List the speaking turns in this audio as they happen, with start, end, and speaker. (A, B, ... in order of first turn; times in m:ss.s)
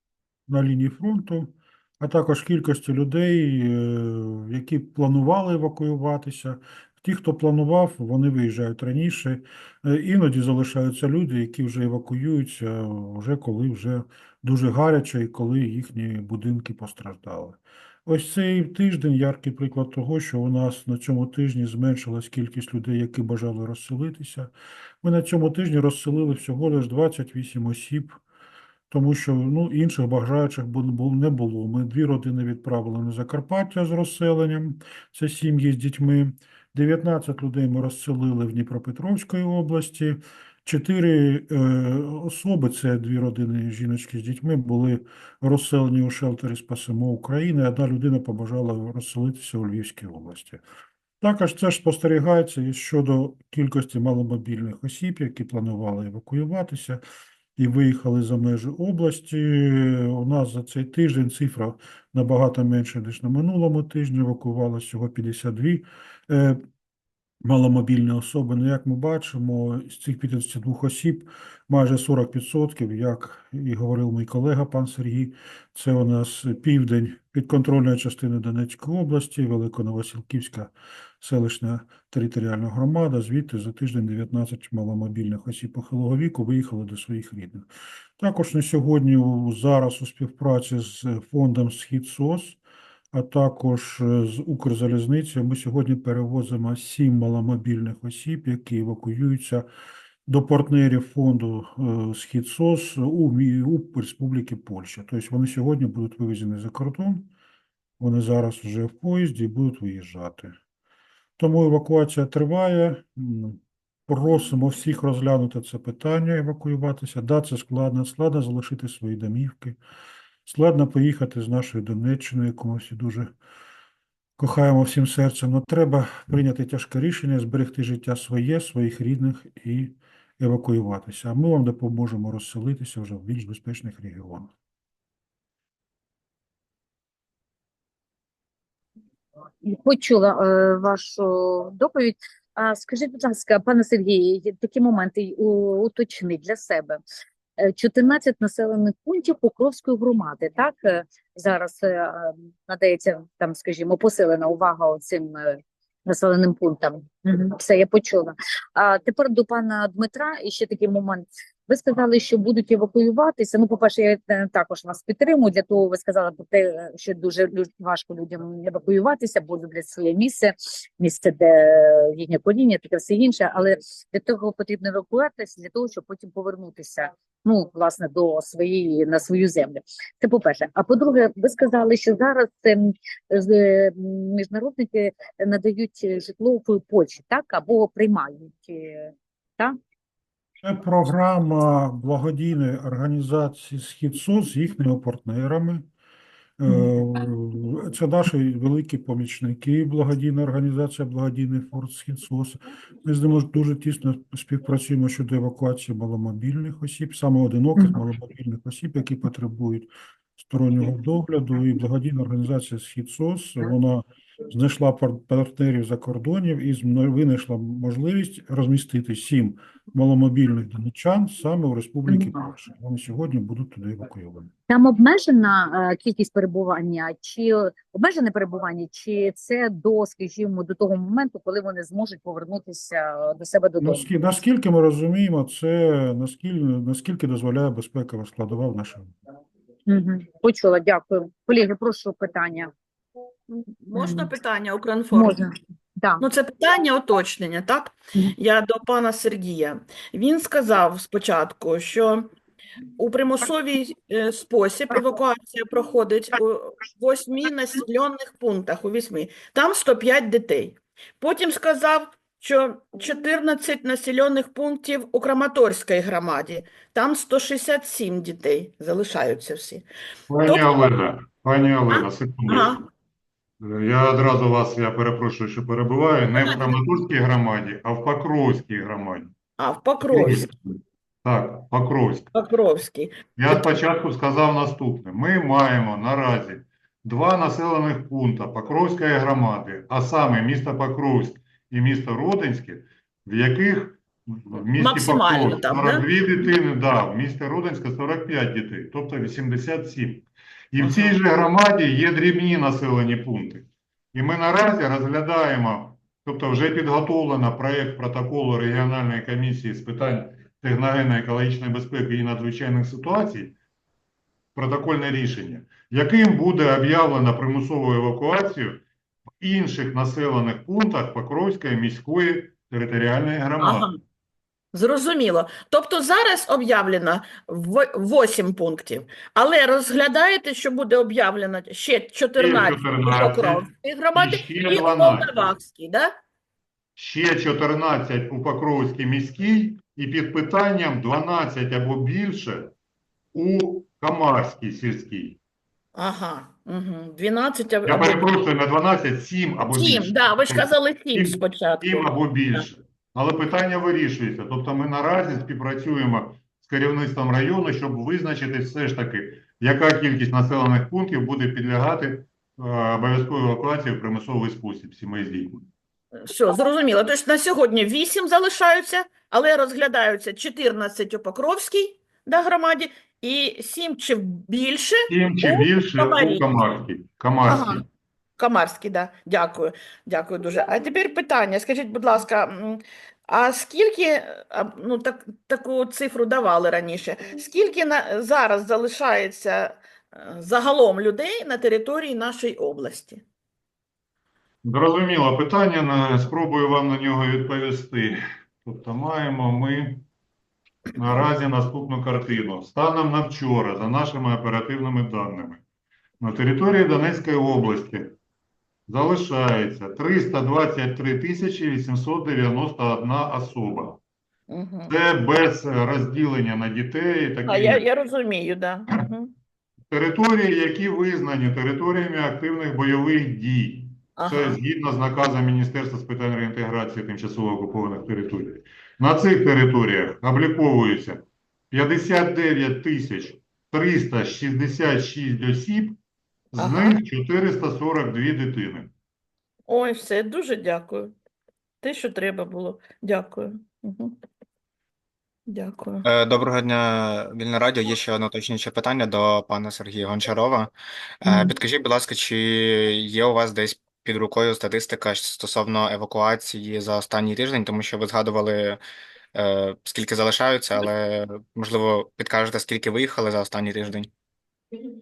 0:00.5-0:28.2 A
0:28.9-0:50.6 A
0:51.2-0:57.0 A
0:57.6-1:06.6 A
1:07.4-1:32.6 A
1:33.1-1:39.7 A
1:40.3-1:47.3 A
1:48.0-1:50.6 A
1:51.4-1:59.8 A
2:00.5-2:03.3 A
2:04.4-2:14.5 A
2:19.6-2:27.0 B
2:27.6-3:09.8 B
3:10.6-3:15.9 A
3:16.6-3:44.5 A
3:42.1-3:42.4 B
3:44.7-3:54.1 B
3:53.8-3:59.1 A
3:59.9-4:02.7 B
4:03.5-4:05.4 C
4:04.0-4:04.3 B
4:05.1-4:06.2 B
4:06.2-4:12.3 C
4:13.0-4:29.9 C
4:30.3-4:32.8 D
4:30.5-4:30.9 C
4:31.9-4:32.8 C
4:33.6-4:39.3 D
4:36.3-4:36.8 C
4:39.6-4:40.5 C
4:40.1-4:40.6 D
4:41.2-4:42.3 D
4:42.3-4:43.7 C
4:43.4-5:13.6 D
4:54.8-4:56.0 C
5:00.8-5:01.2 C
5:14.6-5:18.8 D
5:19.4-5:23.9 D
5:23.6-5:24.0 C
5:24.7-5:36.2 C
5:32.4-5:35.5 D
5:37.0-5:42.7 D
5:43.3-5:45.4 D
5:46.0-5:48.2 C
5:47.9-6:05.6 D
5:49.8-5:52.7 C
6:06.2-6:16.5 C
6:15.1-6:17.9 D
6:17.4-6:17.8 C
6:18.4-6:33.2 C
6:34.6-6:40.1 D
6:41.0-6:45.6 D
6:46.2-6:48.2 D
6:48.9-6:54.0 D
6:54.5-6:54.9 C
6:54.9-6:57.8 D
6:57.5-6:59.3 C
6:59.9-7:16.0 D
7:04.2-7:04.6 C
7:16.5-7:18.9 D
7:16.6-7:17.0 C
7:19.7-7:21.1 C
7:21.8-7:24.2 C
7:25.5-7:26.0 C
7:26.0-7:38.8 E
7:31.2-7:31.5 B
7:39.3-7:44.1 E